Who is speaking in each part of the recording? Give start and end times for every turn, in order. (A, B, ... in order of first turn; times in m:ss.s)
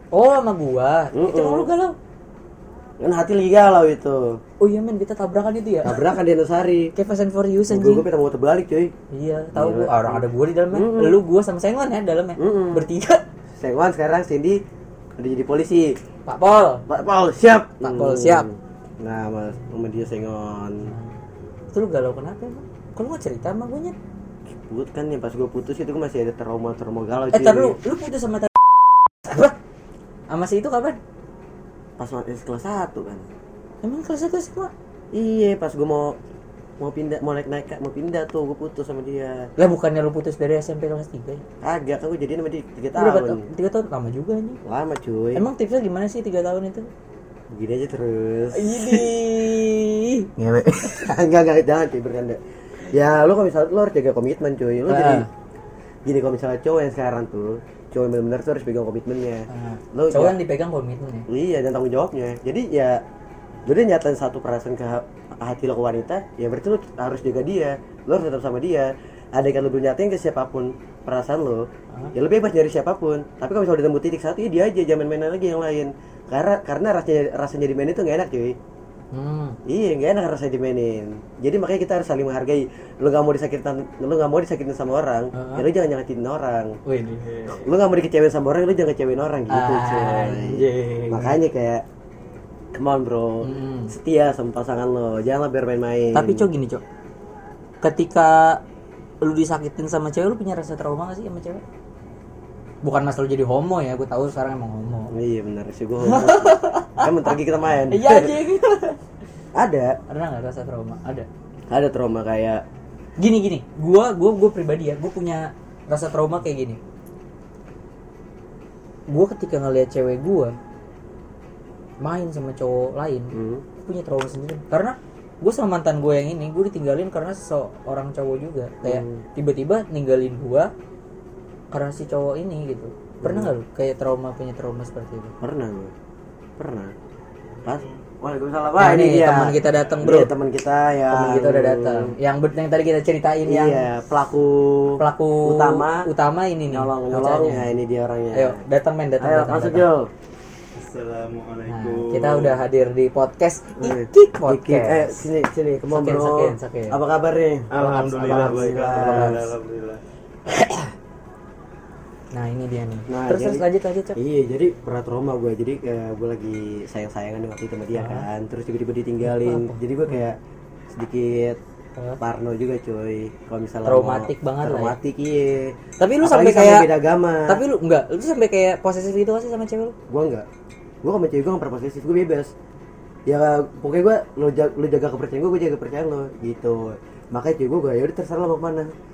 0:00.1-0:02.0 A
0:01.1-0:01.7 B
0:03.0-0:04.4 B
0:04.6-0:06.1 A
0:05.8-0:06.9 B
0:06.9-0:08.0 A
0:07.7-0:08.9 B
0:09.1-0:13.2 A
0:09.5-0:11.2 B
0:12.4-0:12.9 B
0:13.6-0:14.6 B
0:15.2-0:16.0 B
0:16.2-0:16.8 A
0:16.9-0:20.9 B
0:17.8-0:18.5 A
0:20.8-0:21.1 A
0:21.7-0:23.9 A
0:24.5-0:27.8 B
0:27.3-0:28.6 A
0:29.2-0:29.5 A
0:30.3-0:31.0 A
0:32.0-0:33.2 B
0:33.8-0:34.7 A
0:35.1-0:36.2 B
0:36.8-0:39.5 B
0:39.6-0:41.4 A
0:41.6-0:43.4 B
0:42.9-0:44.6 A
0:44.6-0:45.4 B
0:45.3-0:46.9 A
0:47.5-0:49.1 B
0:48.5-0:50.3 A
0:50.4-0:52.4 B
0:52.9-0:55.2 B
0:54.9-0:55.3 A
0:56.0-1:00.4 B
0:59.5-1:01.3 A
1:01.3-1:03.0 B
1:03.6-1:18.5 B
1:19.1-1:19.6 A
1:19.6-1:26.8 B
1:25.3-1:25.7 A
1:26.8-1:27.6 A
1:27.5-1:31.8 B
1:29.5-1:31.4 A
1:32.7-1:36.5 B
1:33.4-1:33.9 A
1:36.1-1:36.8 A
1:37.8-1:38.6 A
1:39.2-1:41.6 A
1:42.8-1:45.1 A
1:45.1-1:48.4 B
1:46.0-1:47.1 A
1:47.9-1:49.0 A
1:49.5-1:49.9 B
1:50.1-1:51.3 A
1:51.7-1:52.6 B
1:53.2-1:56.8 A
1:59.1-2:00.6 A
2:02.0-2:10.7 A
2:03.3-2:03.6 B
2:08.8-2:09.2 B
2:11.7-2:15.3 A
2:13.2-2:13.5 B
2:15.4-2:15.9 B
2:16.6-2:16.9 B
2:17.6-2:22.1 B
2:18.8-2:20.3 A
2:21.1-2:23.9 A
2:23.5-2:26.1 B
2:25.0-2:27.7 A
2:26.7-2:28.6 B
2:28.3-2:29.8 A
2:29.2-2:30.1 B
2:30.7-2:32.6 C
2:31.6-2:35.2 A
2:33.8-2:39.5 B
2:35.9-2:37.0 A
2:37.7-2:40.0 C
2:37.8-2:39.4 A
2:40.5-2:40.9 A
2:42.3-2:44.2 A
2:43.1-2:43.6 B
2:44.1-2:50.4 B
2:47.9-2:48.2 A
2:49.2-2:50.2 A
2:50.9-2:51.6 B
2:52.2-2:57.6 B
2:53.8-2:54.9 A
2:56.0-2:56.9 A
2:57.5-3:00.0 A
3:00.1-3:00.4 B
3:01.0-3:02.5 B
3:03.3-3:08.9 B